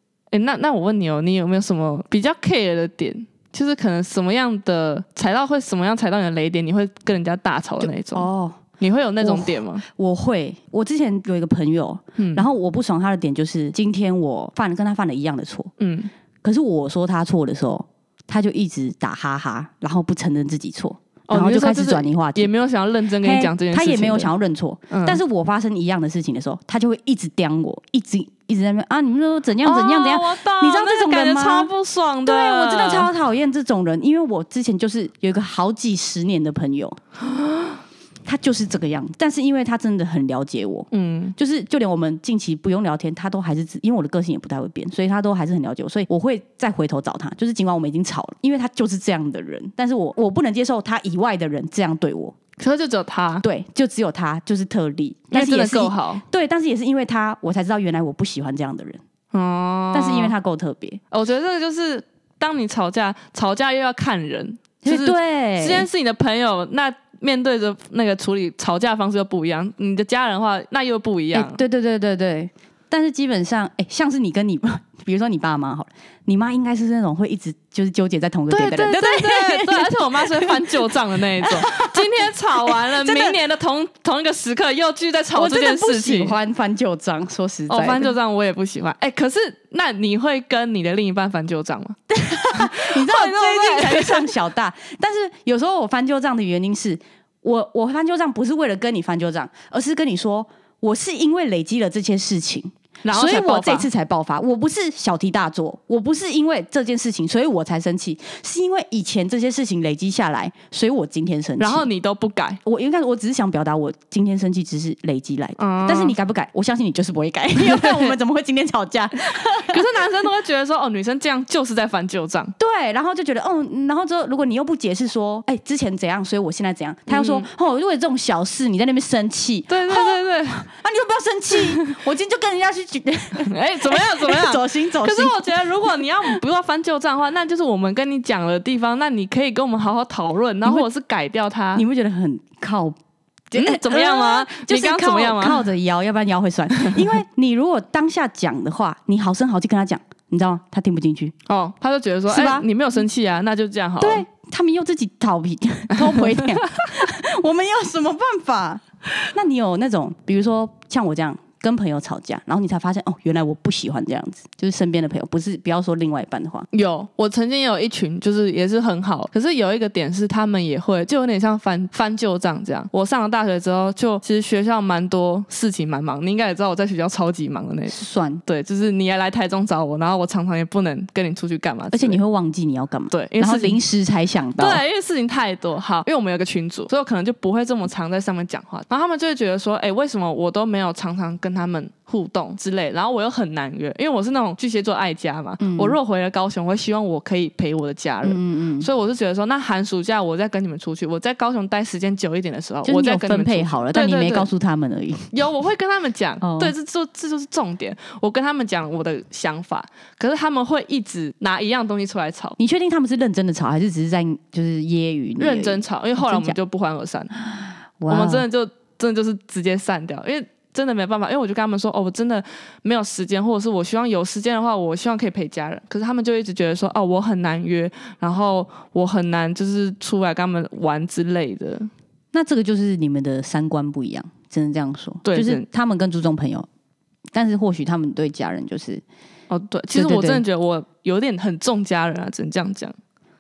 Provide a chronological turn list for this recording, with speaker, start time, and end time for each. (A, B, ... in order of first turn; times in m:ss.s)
0:00.3-0:08.3 A
0:07.8-0:08.6 B
0:08.8-0:09.8 A
0:09.2-0:15.7 B
0:12.2-0:12.5 A
0:15.8-0:16.1 A
0:16.4-0:22.5 B
0:21.3-0:24.3 A
0:23.2-0:31.7 B
0:24.9-0:25.2 A
0:29.6-0:33.1 A
0:32.2-0:37.0 B
0:37.3-0:37.8 A
0:38.3-0:52.4 B
0:40.9-0:41.4 A
0:52.6-0:53.4 A
0:53.4-0:59.0 B
0:55.3-0:56.2 A
0:59.3-1:00.3 A
0:59.9-1:01.0 B
1:01.1-1:11.6 A
1:04.8-1:05.9 B
1:11.3-1:23.4 B
1:18.5-1:26.3 A
1:25.4-1:28.1 B
1:27.7-1:32.0 A
1:32.1-1:51.9 B
1:32.5-1:34.3 A
1:43.0-1:43.9 A
1:51.6-1:52.6 A
1:52.6-1:59.9 B
1:55.6-1:56.2 A
1:57.6-1:58.2 A
1:59.4-2:02.5 A
2:02.6-2:15.4 B
2:07.1-2:07.5 A
2:09.7-2:10.7 A
2:13.4-2:21.8 A
2:21.8-2:23.0 B
2:23.5-2:31.3 B
2:23.5-2:25.6 A
2:31.5-2:34.2 A
2:32.3-2:32.7 B
2:34.0-2:46.7 B
2:36.1-2:36.4 A
2:46.7-3:02.2 A
2:57.9-2:58.4 B
3:01.9-3:04.8 B
3:03.1-3:03.8 A
3:04.6-3:24.5 A
3:15.6-3:16.0 B
3:18.2-3:18.9 B
3:22.8-3:25.3 B
3:25.3-3:32.6 A
3:26.4-3:26.7 B
3:32.6-3:36.6 B
3:35.4-3:37.4 A
3:37.5-3:38.5 B
3:38.1-3:51.9 A
3:52.3-3:56.7 B
3:55.2-3:55.6 A
3:57.3-3:59.0 B
3:59.5-4:03.0 A
3:59.9-4:00.4 B